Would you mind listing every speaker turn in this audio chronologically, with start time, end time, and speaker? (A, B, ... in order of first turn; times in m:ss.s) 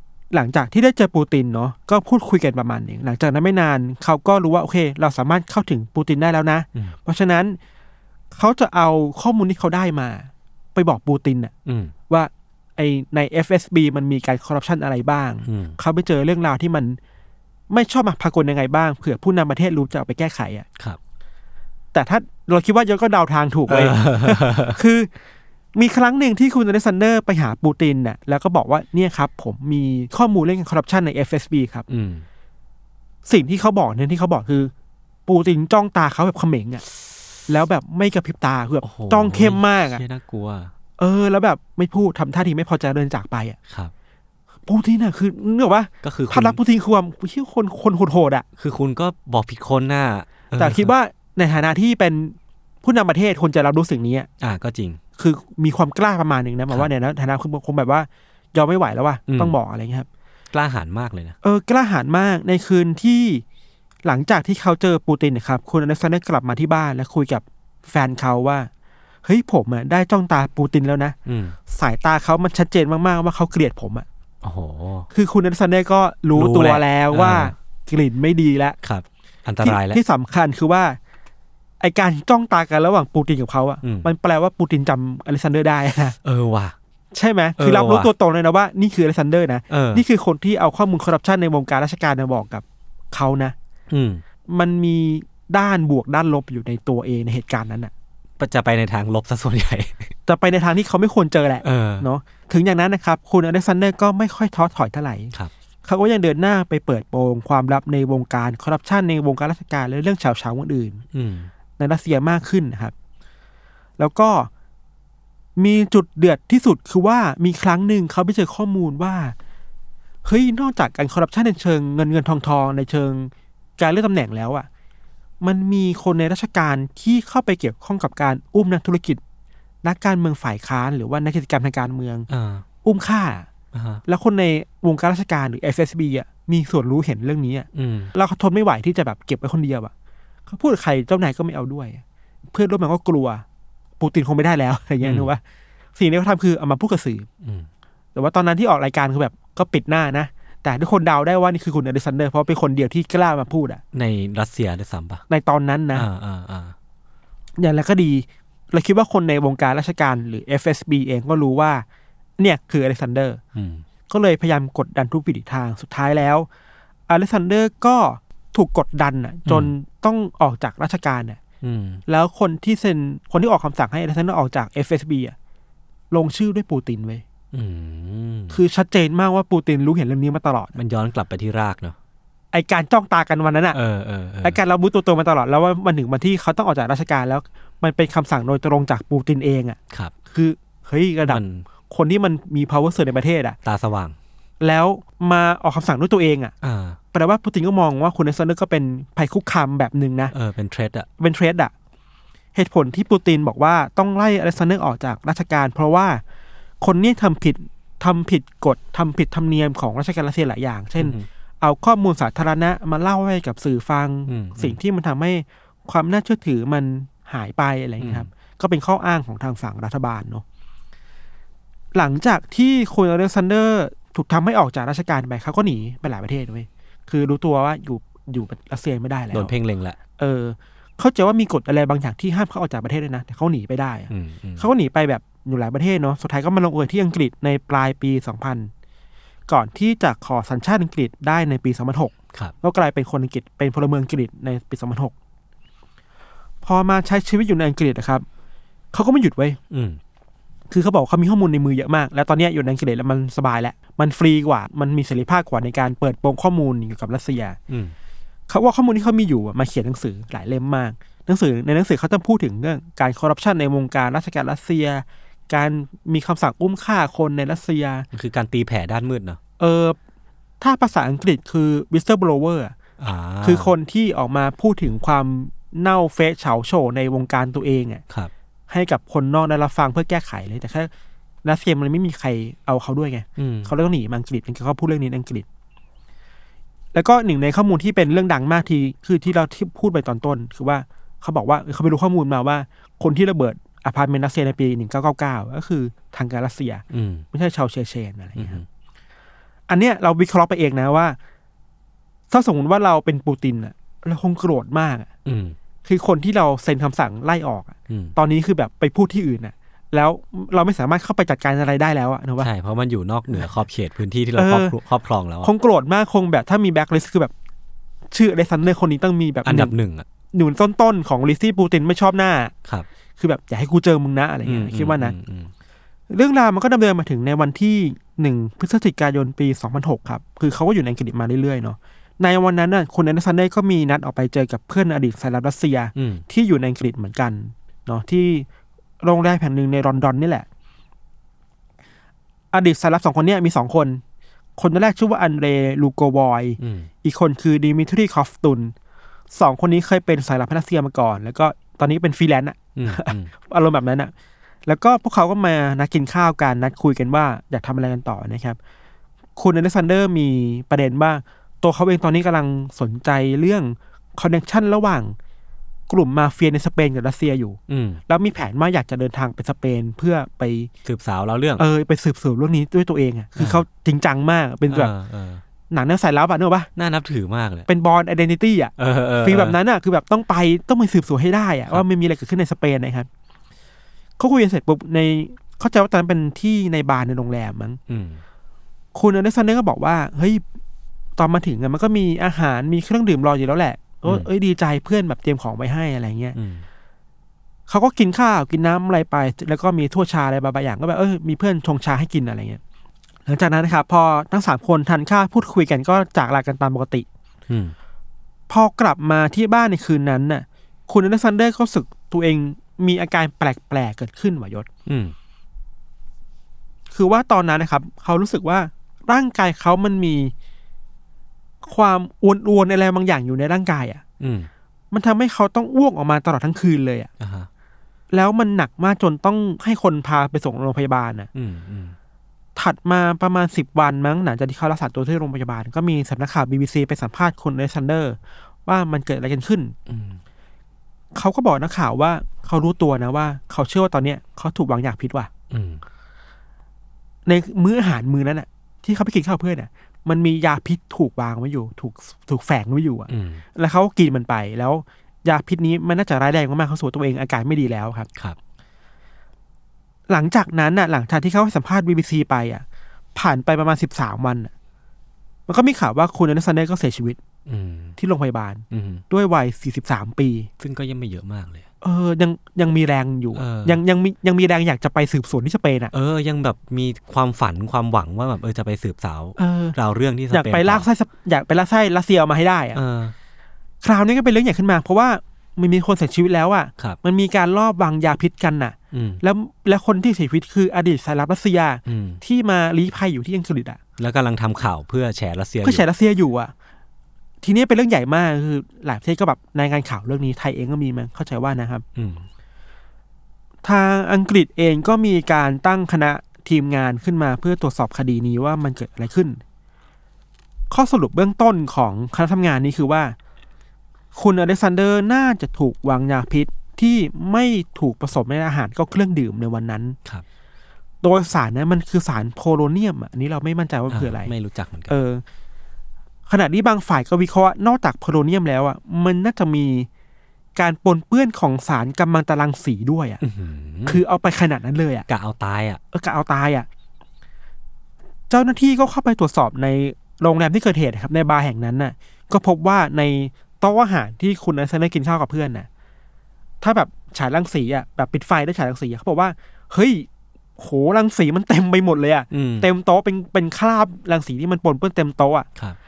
0:00.3-0:07.6 A
0:08.3-0:11.5 A
0:11.6-0:11.9 B
0:12.1-0:17.0 A
0:15.4-0:15.8 B
0:17.7-0:20.6 A
0:21.9-0:25.1 A
0:23.7-0:24.8 B
0:25.8-0:31.9 A
0:31.9-0:32.2 B
0:33.2-0:34.7 A
0:35.3-0:36.8 A
0:37.5-0:40.0 A
0:38.8-0:40.7 B
0:41.0-0:43.6 A
0:43.7-0:43.9 B
0:44.7-0:48.4 A
0:46.0-0:46.6 B
0:48.6-0:50.9 B
0:50.6-0:54.3 A
0:54.4-0:55.0 B
0:55.2-1:00.1 A
0:59.3-0:59.5 B
1:00.5-1:01.4 B
1:01.4-1:03.4 A
1:04.0-1:08.7 A
1:09.2-1:11.2 A
1:11.2-1:11.6 B
1:11.7-1:14.0 A
1:14.4-1:15.1 B
1:15.1-1:18.8 A
1:16.3-1:17.5 B
1:18.8-1:20.0 B
1:19.6-1:21.0 A
1:21.8-1:26.2 A
1:23.8-1:24.1 B
1:26.2-1:26.8 B
1:27.1-1:33.5 A
1:27.6-1:28.1 B
1:29.7-1:30.0 B
1:33.9-1:34.2 B
1:34.5-1:37.9 A
1:38.4-1:40.1 B
1:40.3-1:45.3 A
1:41.6-1:42.0 B
1:45.8-1:51.0 A
1:51.1-1:51.5 B
1:51.8-1:52.9 A
1:54.0-1:54.5 A
1:55.6-1:59.3 A
2:00.2-2:04.7 A
2:05.4-2:09.2 A
2:09.8-2:12.3 A
2:12.3-2:12.6 B
2:12.8-2:13.4 A
2:13.7-2:14.0 B
2:14.0-2:19.9 A
2:17.7-2:18.1 B
2:20.5-2:23.4 A
2:24.0-2:25.4 A
2:25.0-2:25.3 B
2:26.0-2:27.3 A
2:27.4-2:27.7 B
2:28.1-2:33.8 A
2:33.9-2:35.2 B
2:35.3-2:36.1 A
2:35.9-2:36.8 B
2:37.6-2:41.8 A
2:42.4-2:43.4 A
2:43.5-2:43.8 B
2:44.1-2:46.5 A
2:47.1-2:51.4 A
2:49.5-2:49.7 B
2:51.6-2:52.0 B
2:52.1-2:55.3 A
2:56.1-2:57.2 A
2:57.5-2:58.6 B
2:58.5-3:00.8 A
3:00.8-3:02.0 B
3:02.5-3:03.8 A
3:03.7-3:04.6 B
3:04.4-3:09.8 A
3:10.3-3:13.6 A
3:11.3-3:11.6 B
3:13.6-3:14.2 B
3:14.6-3:16.5 A
3:16.6-3:17.0 B
3:17.1-3:20.3 A
3:20.3-3:21.1 B
3:21.2-3:21.7 A
3:22.5-3:26.2 A
3:26.8-3:40.4 A
3:31.0-3:31.2 B
3:34.3-3:34.8 B
3:38.0-3:38.3 B
3:41.9-3:49.5 A
3:49.3-3:50.0 B
3:50.2-3:58.7 A
3:54.1-3:54.7 B
3:59.5-4:05.1 A
4:06.6-4:08.2 A
4:08.9-4:09.6 A
4:09.7-4:10.0 B
4:10.7-4:17.6 A
4:17.7-4:17.9 B
4:18.5-4:28.0 A
4:28.1-4:29.4 B
4:29.6-4:30.0 A
4:30.6-4:32.7 A
4:33.0-4:33.7 B
4:33.4-4:38.0 A
4:38.7-4:40.9 A
4:41.4-4:45.4 A
4:43.4-4:43.7 B
4:46.9-4:58.6 A
4:56.9-4:57.2 B
4:58.4-4:58.6 B
4:59.7-5:01.2 A
5:02.3-5:05.1 A
5:05.2-5:05.6 B
5:05.8-5:12.5 A
5:07.9-5:08.2 B
5:12.4-5:15.5 B
5:14.4-5:14.8 A
5:15.4-5:17.3 A
5:18.1-5:19.7 A
5:19.4-5:20.0 B
5:20.3-5:22.5 A
5:23.2-5:25.1 A
5:24.4-5:25.5 B
5:26.1-5:38.4 A
5:35.9-5:36.2 B
5:39.0-5:40.4 A
5:42.5-5:44.0 A
5:44.6-5:48.7 A
5:46.6-5:46.9 B
5:49.3-5:54.1 A
5:52.8-5:53.3 B
5:54.6-5:58.6 A
5:59.4-6:05.1 A
6:05.9-6:10.7 A
6:07.7-6:08.0 B
6:10.8-6:11.6 B
6:11.6-6:14.9 A
6:13.4-6:13.6 B
6:14.7-6:15.4 B
6:15.7-6:16.7 A
6:16.8-6:17.7 B
6:17.7-6:23.1 A
6:18.8-6:19.6 B
6:24.2-6:27.8 A
6:27.9-6:28.2 B
6:28.9-6:30.4 A
6:31.2-6:36.4 A
6:36.3-6:36.6 B
6:37.7-6:42.6 A
6:43.2-6:47.0 A
6:47.5-6:47.8 B
6:48.5-6:54.7 A
6:54.9-6:55.1 B
6:56.9-7:00.3 A
7:01.6-7:04.0 A
7:04.2-7:04.5 B
7:04.9-7:07.1 A
7:07.2-7:07.5 B
7:08.1-7:11.3 A
7:11.3-7:12.0 B
7:12.6-7:19.8 A
7:19.9-7:20.2 B
7:21.1-7:25.3 A
7:25.5-7:25.8 B
7:27.2-7:38.1 A
7:33.1-7:33.4 B
7:40.1-7:42.6 A
7:43.1-7:44.5 A
7:45.5-7:47.2 A
7:47.5-7:48.0 B
7:48.0-7:50.5 A
7:48.7-7:49.0 B
7:50.6-7:51.6 B
7:51.8-7:55.9 A
7:53.3-7:53.8 B
7:55.9-8:00.9 B
7:59.4-7:59.8 A
8:00.3-8:02.8 A
8:02.7-8:03.1 B
8:03.8-8:13.8 A
8:08.9-8:09.2 B
8:11.8-8:12.2 B
8:14.0-8:15.8 B
8:15.6-8:16.5 A
8:17.4-8:21.8 A
8:22.0-8:22.3 B
8:23.6-8:29.4 A
8:30.7-8:33.1 A
8:34.1-8:40.0 A
8:41.0-8:44.3 A
8:43.9-8:45.0 B
8:44.9-8:45.2 A
8:46.3-8:49.9 A
8:50.6-8:53.2 A
8:53.2-8:54.0 B
8:53.8-8:55.0 A
8:55.1-8:55.8 B
8:55.9-8:56.7 A
8:58.3-9:05.7 A
9:06.6-9:10.1 A
9:10.6-9:15.5 A
9:12.3-9:12.7 B